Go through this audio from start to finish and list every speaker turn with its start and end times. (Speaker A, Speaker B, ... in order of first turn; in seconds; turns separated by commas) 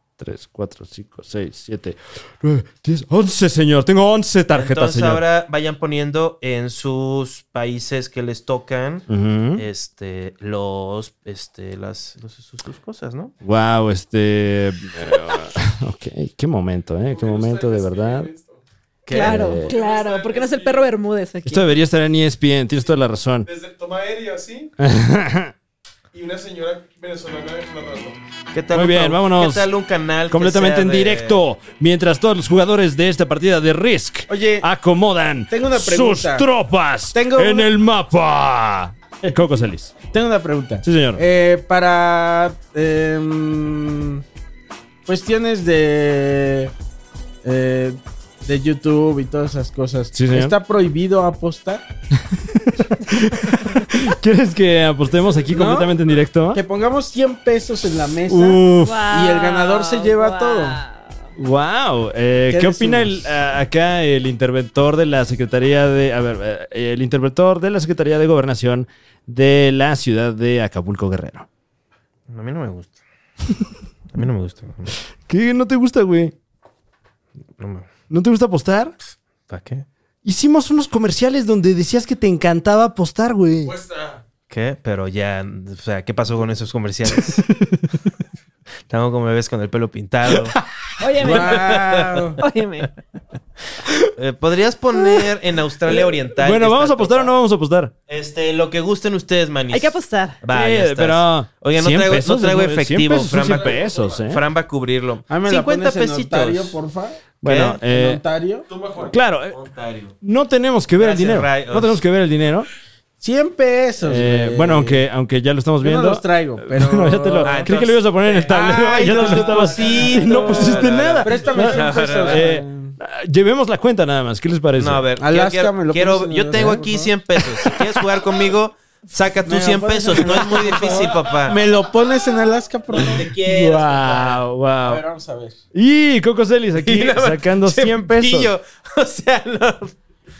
Speaker A: 0.2-5.2, Speaker B: 4.5-13.3, Speaker A: 9.1-9.7, Speaker A: 13.4-18.3, Speaker C: 17.1-18.6, Speaker B: 19.1-19.6, Speaker D: 19.1-21.8, Speaker A: 19.2-19.7, Speaker C: 19.6-20.9, Speaker A: 21.5-23.5, Speaker C: 23.4-24.7, Speaker A: 24.8-25.5, Speaker C: 26.1-28.2, Speaker B: 28.5-31.4, Speaker A: 28.7-29.7, Speaker A: 30.3-39.9, Speaker E: 34.3-34.7, Speaker E: 35.5-36.5, Speaker E: 37.1-37.7, Speaker E: 40.1-44.2, Speaker A: 40.8-41.2, Speaker E: 45.1-46.7, Speaker E: 47.4-51.9, Speaker A: 50.1-50.5, Speaker A: 52.2-56.6, Speaker E: 55.5-56.0, Speaker E: 56.5-60.8, Speaker A: 58.3-59.1, Speaker D: 58.8-61.3, Speaker A: 61.4-71.5, Speaker E: 62.5-63.2, Speaker B: 72.3-73.0, Speaker B: 74.1-75.0, Speaker A: 75.3-76.3, Speaker B: 77.6-77.9, Speaker A: 78.1-79.0, Speaker B: 79.5-79.9, Speaker A: 80.2-83.7, Speaker C: 83.6-84.2, Speaker B: 84.5-87.5, Speaker A: 87.6-87.9, Speaker B: 88.9-90.6, Speaker A: 90.3-90.6, Speaker D: 91.0-91.8, Speaker E: 91.2-92.4, Speaker B: 91.2-92.3, Speaker D: 92.4-92.9, Speaker B: 94.1-97.3, Speaker A: 95.9-97.9, Speaker B: 98.1-106.8, Speaker D: 99.7-100.4, Speaker A: 100.5-104.4, Speaker C: 103.4-104.2, Speaker E: 105.3-108.7, Speaker A: 107.4-108.2, Speaker B: 107.4-107.8, Speaker C: 108.7-109.2, Speaker A: 109.1-109.6, Speaker B: 109.5-110.2, Speaker A: 110.2-112.7, Speaker B: 111.0-112.0, Speaker E: 113.2-115.1, Speaker A: 114.0-125.1, Speaker E: 115.8-117.7, Speaker B: 117.4-122.5, Speaker E: 118.5-123.0, Speaker B: 124.8-131.6, Speaker E: 125.2-127.1, Speaker A: 127.3-128.0, Speaker E: 129.5-133.3, Speaker B: 132.9-134.4, Speaker A: 133.3-135.0, Speaker E: 134.8-135.6, Speaker A: 135.7-138.5, Speaker B: 136.8-139.9